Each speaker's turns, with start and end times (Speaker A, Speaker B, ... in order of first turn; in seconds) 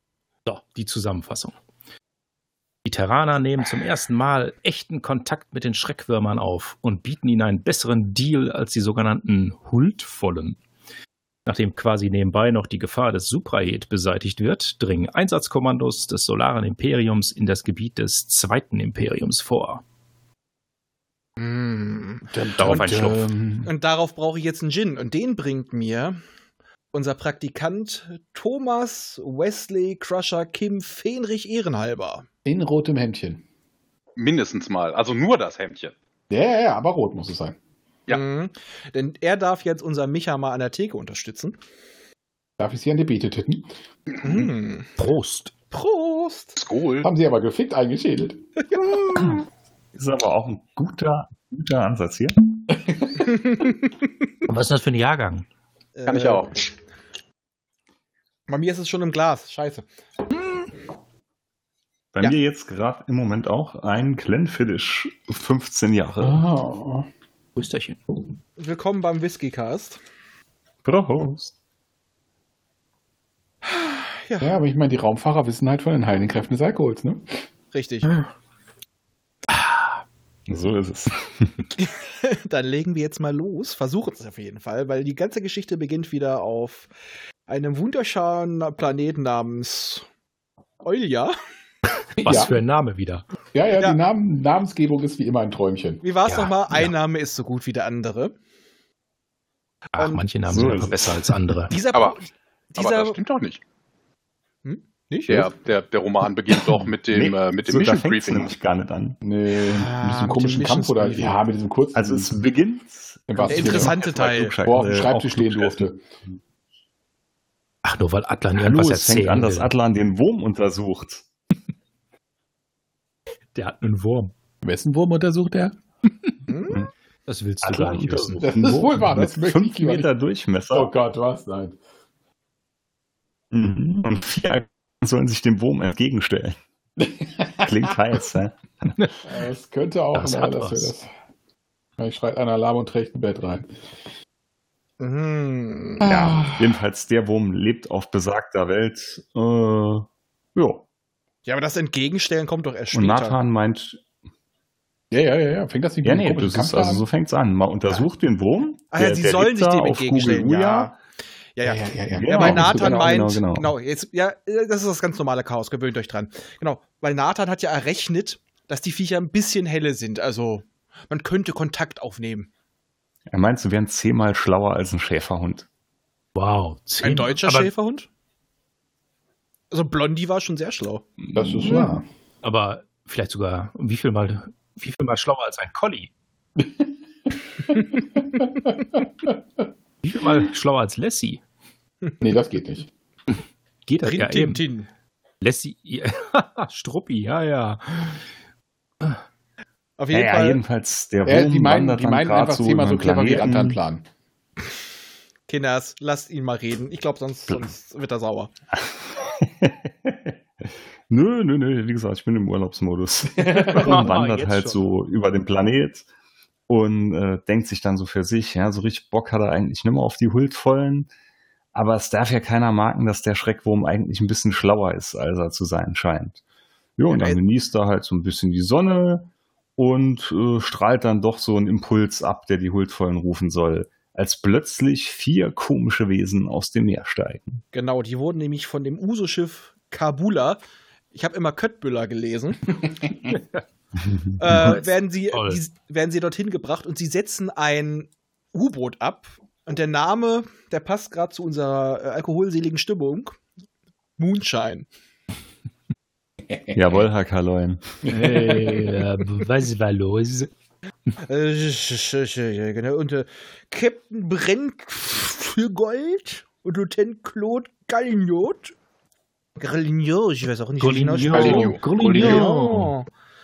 Speaker A: 0.5-1.6, 2.9-10.6, 11.5-19.8, 22.6-23.2, 45.0-45.6, 54.5-55.5, 67.6-68.0, 92.2-93.3, 96.3-96.9, 99.9-101.8, 117.8-119.7, 123.5-124.3, 127.3-128.5, 140.1-140.9, 176.3-177.7, 182.4-186.1, 190.0-191.4, 193.9-194.6, 195.4-198.2, 213.5-214.9, 244.5-245.6, 258.1-260.5, 270.8-272.9
Speaker B: 21.4-22.8, 23.6-26.2, 26.9-32.3, 38.1-41.6, 44.2-44.9, 45.7-46.6, 53.2-53.7, 56.0-56.5, 58.5-59.9, 68.6-70.0, 73.7-74.5, 77.7-78.1, 81.8-86.9, 87.5-90.0, 90.8-91.3, 96.0-98.4, 101.7-103.2, 104.6-105.5, 109.7-111.3, 113.5-114.5, 126.5-126.8, 145.0-146.1, 151.5-153.4, 158.9-160.9, 161.6-172.5, 177.0-178.1, 179.7-181.1, 194.0-194.9, 200.0-200.6, 205.5-208.5, 227.1-227.4, 237.7-240.6, 241.1-242.8, 244.4-253.4, 254.2-254.9, 261.2-268.7, 269.6-273.1
Speaker C: 22.3-23.7, 32.5-33.4, 36.3-37.6, 42.6-43.7, 47.0-48.4, 52.7-53.2, 66.2-67.1, 74.4-77.4, 92.2-92.6, 93.5-96.0, 109.2-112.3, 113.3-114.0, 114.6-116.0, 124.6-125.8, 128.4-130.1, 130.7-131.8, 137.0-137.9, 139.2-141.1, 142.0-143.7, 146.1-146.5, 155.1-157.1, 161.6-163.2, 181.3-182.0, 186.6-186.9, 187.7-189.3, 192.2-192.9, 201.2-204.1, 213.4-213.8, 256.5-257.0, 258.1-259.0, 271.3-271.7
Speaker D: 34.2-35.9, 46.6-47.1, 56.1-56.7, 101.9-102.2, 102.8-103.6, 105.3-108.5, 271.3-272.5
Speaker E: 50.0-52.4, 62.1-66.5, 70.8-71.5, 80.5-81.6, 100.5-101.1, 107.1-109.2, 112.0-115.8, 118.6-121.3, 127.6-130.9, 133.5-136.6, 137.6-139.0, 146.1-150.8, 152.9-154.0, 156.0-160.9, 162.1-163.7, 173.3-175.7, 200.1-203.8, 209.2-216.1, 216.7-221.1, 221.7-226.4, 227.0-237.6, 256.7-258.1